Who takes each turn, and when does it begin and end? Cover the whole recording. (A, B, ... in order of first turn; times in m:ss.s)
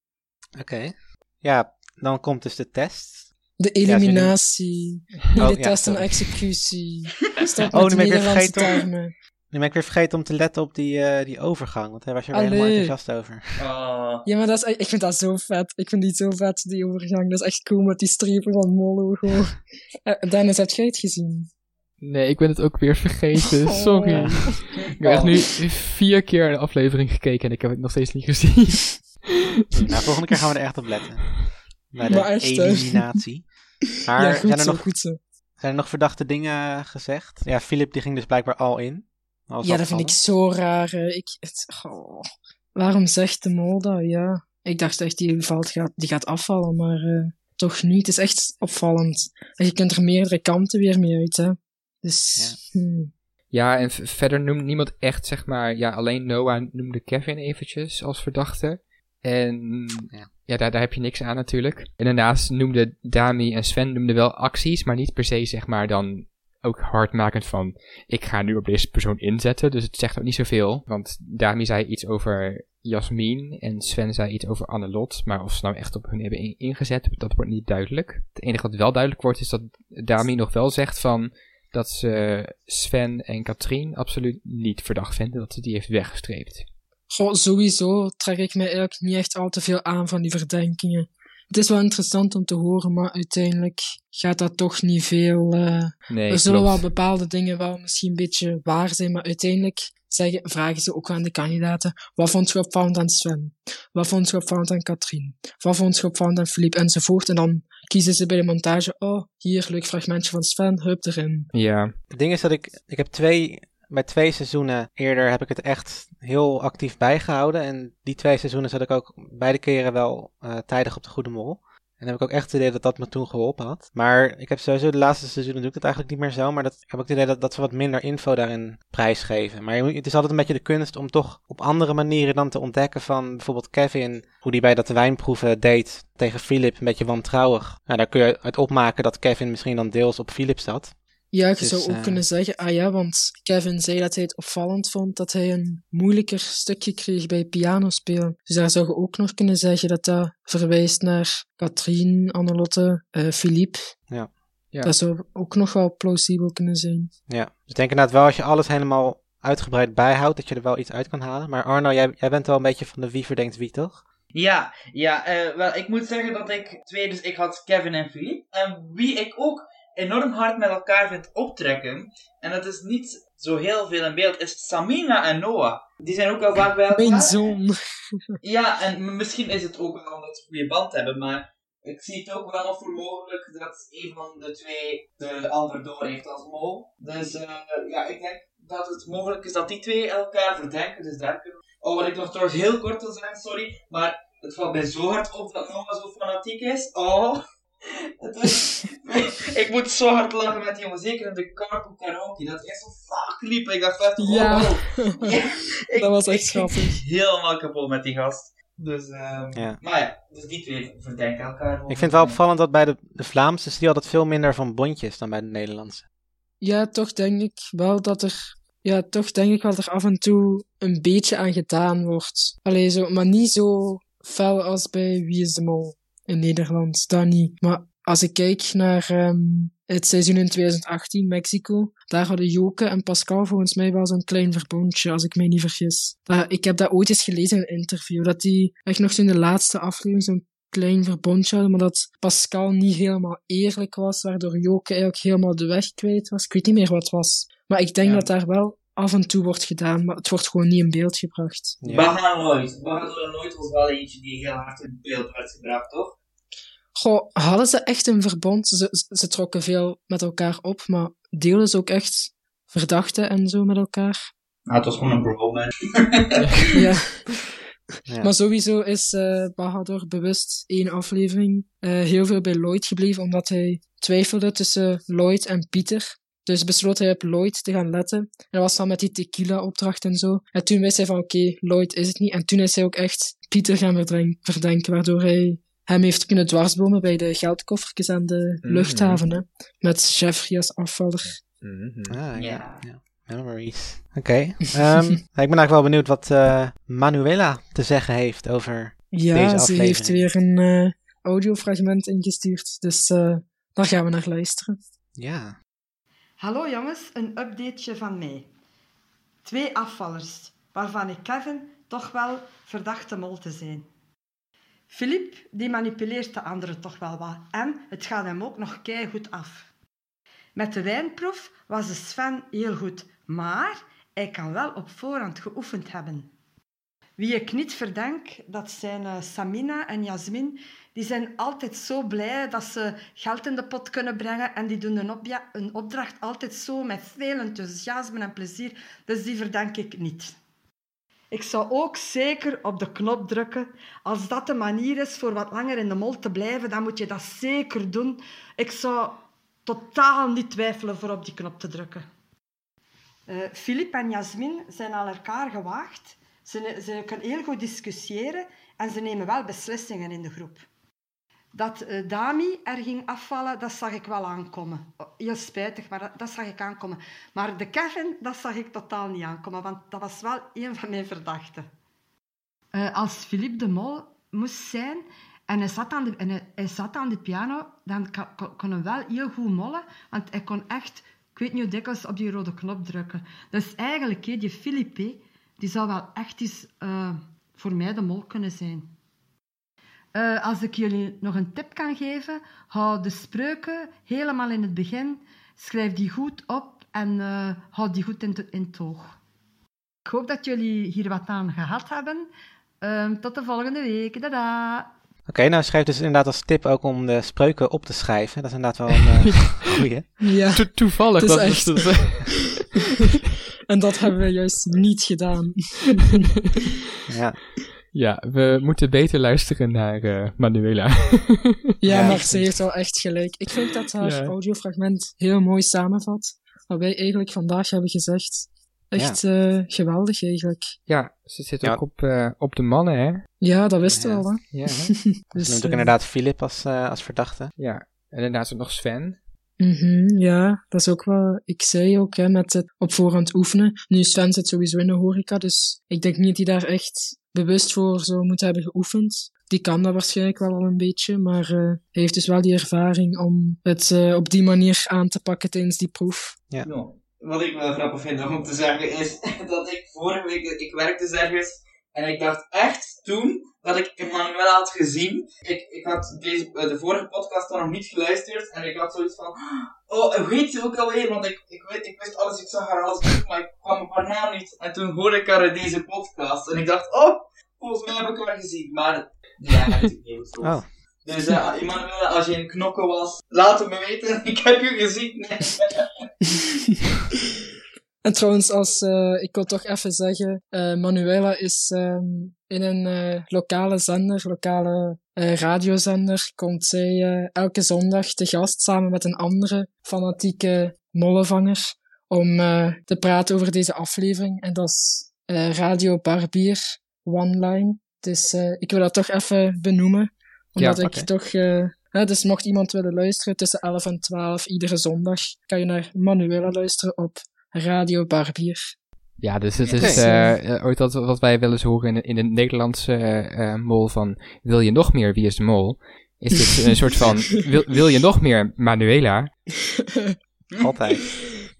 0:00.6-0:03.3 A
0:03.6-0:09.1 B
0:03.8-0:04.3 A
0:05.3-0:06.2 A
0:07.7-0:08.7 A
0:09.5-0:13.6 A
0:12.3-0:12.9 B
0:13.6-0:14.2 C
0:14.2-0:21.5 B
0:22.0-0:29.2 D
0:23.7-0:24.7 B
0:24.1-0:24.5 A
0:24.8-0:25.3 C
0:29.7-0:34.9 A
0:32.0-0:33.0 B
0:34.1-0:35.2 B
0:35.6-0:40.1 A
0:39.6-0:53.1 B
0:53.5-1:26.6 D
1:27.1-1:51.5 B
1:36.1-1:36.8 D
1:51.5-1:51.9 D
1:52.1-2:20.9 A
2:21.3-2:33.9 B
2:21.6-2:22.2 A
2:34.8-2:37.1 B
2:37.3-2:44.0 A
2:44.3-2:57.5 C
2:56.9-2:58.4 B
2:58.4-3:32.4 C
3:24.2-3:25.3 B
3:26.0-3:27.0 B
3:31.9-3:36.0 A
3:36.6-4:11.8 B
4:11.8-4:12.1 A
4:11.9-4:16.2 C
4:16.9-4:24.3 B
4:24.7-4:26.6 C
4:26.7-4:27.6 B
4:28.2-4:51.4 B
4:48.6-4:49.2 D
4:51.6-4:52.2 D
4:52.1-5:00.3 A
4:52.4-4:52.8 C
4:59.1-5:04.8 B
5:05.2-5:05.6 A
5:06.4-5:08.4 E
5:09.4-5:13.8 E
5:15.0-5:19.6 E
5:20.6-5:26.2 E
5:27.2-5:40.3 E
5:41.4-5:49.1 E
5:49.7-5:52.0 E
5:53.4-6:00.6 E
6:01.6-6:11.6 E
6:12.8-6:15.0 E
6:15.5-6:28.8 E
6:30.2-6:39.0 E
6:40.1-6:42.2 E
6:42.9-6:44.8 E
6:45.3-6:50.1 A
6:50.2-6:52.3 B
6:50.5-6:52.6 D
6:53.7-6:56.2 B
6:57.1-6:57.4 A
6:57.9-7:02.5 D
7:01.8-7:10.7 B
7:01.9-7:02.2 A
7:04.0-7:04.3 D
7:10.9-7:13.3 D
7:13.4-7:15.9 B
7:13.8-7:14.2 A
7:14.5-7:14.9 D
7:15.4-7:17.5 A
7:17.6-7:19.2 D
7:19.6-7:36.4 B
7:36.6-8:05.9 C
8:00.4-8:00.6 A
8:08.0-8:38.7 B
8:30.6-8:30.8 D
8:39.2-8:49.3 D
8:39.8-8:40.1 A
8:39.8-8:40.3 B
8:49.8-8:50.2 B
8:50.6-8:51.1 A